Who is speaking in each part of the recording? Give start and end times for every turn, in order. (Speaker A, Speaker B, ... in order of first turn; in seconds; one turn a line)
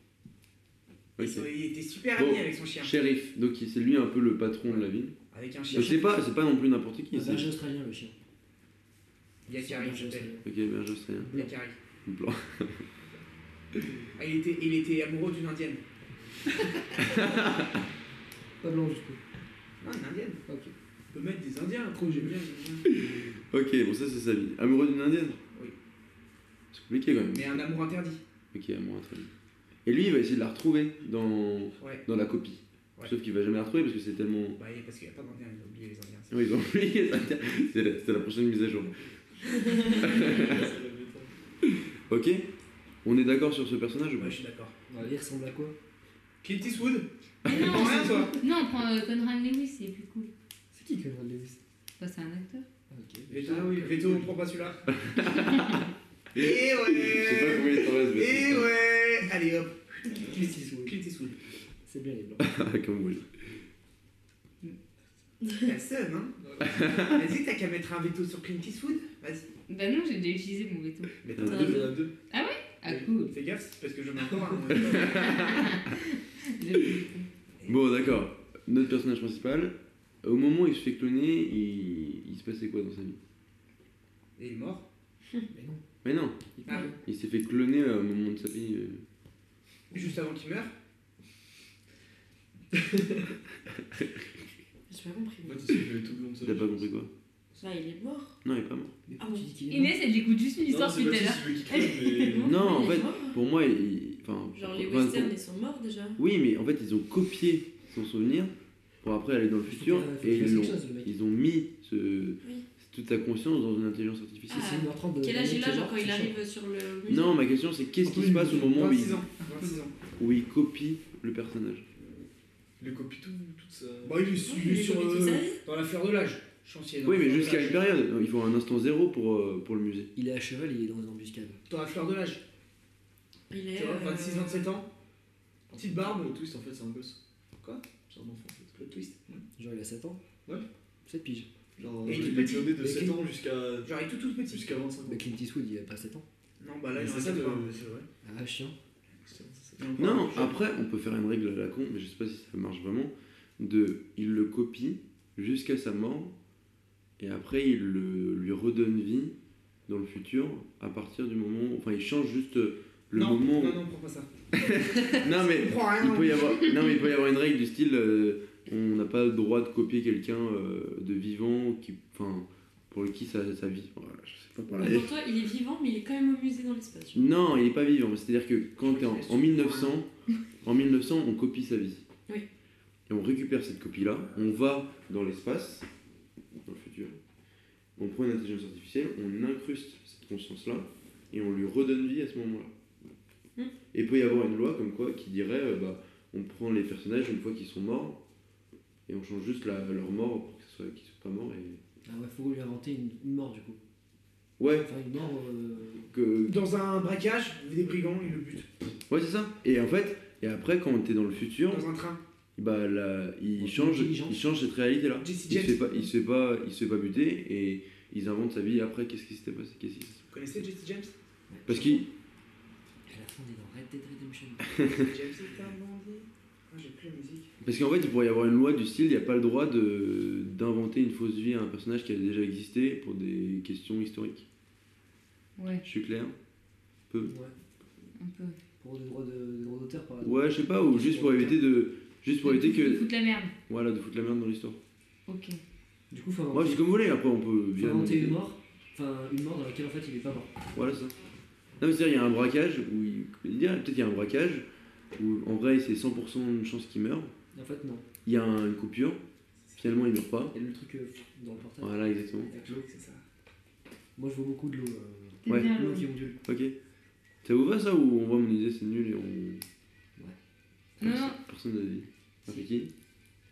Speaker A: 1.2-1.5
Speaker B: 1.2-2.9
Speaker A: 2.1-5.2
Speaker B: 4.7-6.1
Speaker C: 5.7-6.0
Speaker A: 5.7-7.5
Speaker C: 7.1-8.1
Speaker B: 9.4-10.3
Speaker C: 9.5-10.4
Speaker A: 10.4-11.3
Speaker C: 11.2-11.5
Speaker B: 11.3-11.8
Speaker A: 12.1-12.8
Speaker B: 14.2-15.8
Speaker A: 17.0-17.8
Speaker C: 18.6-19.2
Speaker B: 19.8-20.4
Speaker C: 20.5-20.7
Speaker B: 21.1-22.9
Speaker A: 22.9-25.4
Speaker A: 26.7-27.6
Speaker B: 27.3-28.2
Speaker A: 28.5-29.3
Speaker A: 29.8-34.6
Speaker B: 31.8-32.0
Speaker B: 34.6-36.4
Speaker A: 36.3-39.0
Speaker A: 39.9-40.7
Speaker D: 40.0-41.3
Speaker A: 41.6-42.5
Speaker A: 43.0-44.4
Speaker B: 44.2-44.7
Speaker C: 44.9-45.7
Speaker B: 46.4-48.4
Speaker E: 47.4-50.3
Speaker F: 47.8-48.2
Speaker C: 50.7-51.6
Speaker E: 52.0-52.6
Speaker C: 52.9-54.3
Speaker B: 53.3-54.9
Speaker A: 55.0-55.8
Speaker E: 55.4-55.8
Speaker B: 56.3-61.4
Speaker A: 56.3-58.7
Speaker C: 60.2-60.9
Speaker C: 61.9-62.5
Speaker A: 62.4-63.3
Speaker B: 65.6-69.5
Speaker D: 66.4-66.8
Speaker A: 66.6-67.2
Speaker E: 69.7-71.2
Speaker B: 71.2-72.1
Speaker A: 71.3-71.8
Speaker F: 71.4-71.9
Speaker D: 71.5-72.1
Speaker E: 72.3-73.3
Speaker B: 72.9-75.7
Speaker A: 74.8-75.7
Speaker E: 75.2-77.3
Speaker A: 77.7-83.2
Speaker B: 84.4-84.8
Speaker C: 85.5-85.8
Speaker A: 86.0-86.4
Speaker C: 86.6-87.0
Speaker B: 86.7-86.9
Speaker A: 87.0-89.0
Speaker B: 89.9-90.7
Speaker D: 92.7-93.0
Speaker F: 94.9-95.8
Speaker D: 95.4-96.9
Speaker A: 96.4-97.1
Speaker F: 97.5-98.4
Speaker A: 98.4-98.9
Speaker C: 99.1-100.0
Speaker F: 99.2-99.5
Speaker E: 99.7-101.8
Speaker D: 100.7-102.6
Speaker F: 101.8-103.4
Speaker A: 102.4-105.3
Speaker F: 104.5-106.2
Speaker A: 106.2-114.7
Speaker C: 109.6-111.1
Speaker F: 114.5-117.4
Speaker C: 114.5-116.4
Speaker A: 117.1-119.2
Speaker B: 118.0-119.9
Speaker A: 120.2-121.9
Speaker D: 122.8-124.3
Speaker B: 124.0-127.9
Speaker F: 124.4-125.6
Speaker A: 127.0-130.1
Speaker C: 130.2-131.6
Speaker B: 131.7-132.4
Speaker F: 133.5-134.8
Speaker B: 133.7-134.9
Speaker D: 135.7-137.2
Speaker B: 135.7-136.4
Speaker B: 137.6-137.9
Speaker D: 138.0-139.4
Speaker B: 138.8-139.2
Speaker C: 139.6-140.2
Speaker C: 141.1-141.5
Speaker D: 141.8-143.9
Speaker B: 142.1-142.8
Speaker C: 142.2-143.2
Speaker B: 143.8-144.8
Speaker D: 144.5-145.3
Speaker C: 145.1-146.2
Speaker B: 146.6-148.1
Speaker D: 146.9-148.0
Speaker C: 148.2-148.8
Speaker D: 149.2-149.9
Speaker B: 149.8-150.6
Speaker A: 150.0-156.3
Speaker A: 157.2-159.3
Speaker A: 159.9-163.8
Speaker B: 163.1-164.3
Speaker A: 164.5-175.1
Speaker B: 165.0-166.5
Speaker F: 174.7-177.3
Speaker A: 177.1-180.1
Speaker B: 178.8-180.0
Speaker A: 180.6-182.0
Speaker A: 183.1-185.9
Speaker A: 186.6-187.2
Speaker A: 188.0-192.7
Speaker A: 193.9-198.2
Speaker A: 199.1-201.8
Speaker C: 202.1-203.8
Speaker A: 204.6-204.9
Speaker C: 204.8-206.1
Speaker A: 206.1-206.6
Speaker B: 206.4-208.7
Speaker A: 209.1-211.9
Speaker B: 211.7-212.2
Speaker A: 212.6-220.7
Speaker C: 213.6-214.4
Speaker B: 215.2-216.1
Speaker B: 220.3-221.1
Speaker C: 221.5-222.1
Speaker A: 221.7-222.1
Speaker C: 223.1-224.8
Speaker B: 224.9-227.5
Speaker A: 227.6-234.4
Speaker E: 235.6-235.8
Speaker A: 235.8-236.3
Speaker C: 237.3-237.5
Speaker E: 238.2-238.6
Speaker C: 238.8-241.6
Speaker A: 240.2-243.1
Speaker E: 242.4-243.5
Speaker A: 243.7-244.8
Speaker E: 245.3-245.6
Speaker C: 246.1-246.9
Speaker A: 246.5-248.4
Speaker C: 247.8-250.5
Speaker A: 250.7-251.1
Speaker A: 251.8-254.7
Speaker A: 255.2-257.3
Speaker C: 257.5-258.1
Speaker A: 258.2-259.2
Speaker B: 259.6-260.0
Speaker A: 259.8-260.5
Speaker C: 260.5-262.9
Speaker A: 261.8-262.5
Speaker B: 262.6-263.2
Speaker C: 264.1-266.4
Speaker E: 265.4-266.1
Speaker A: 265.5-265.7
Speaker A: 266.4-266.7
Speaker A: 267.4-269.6
Speaker E: 271.0-271.4
Speaker A: 271.0-272.9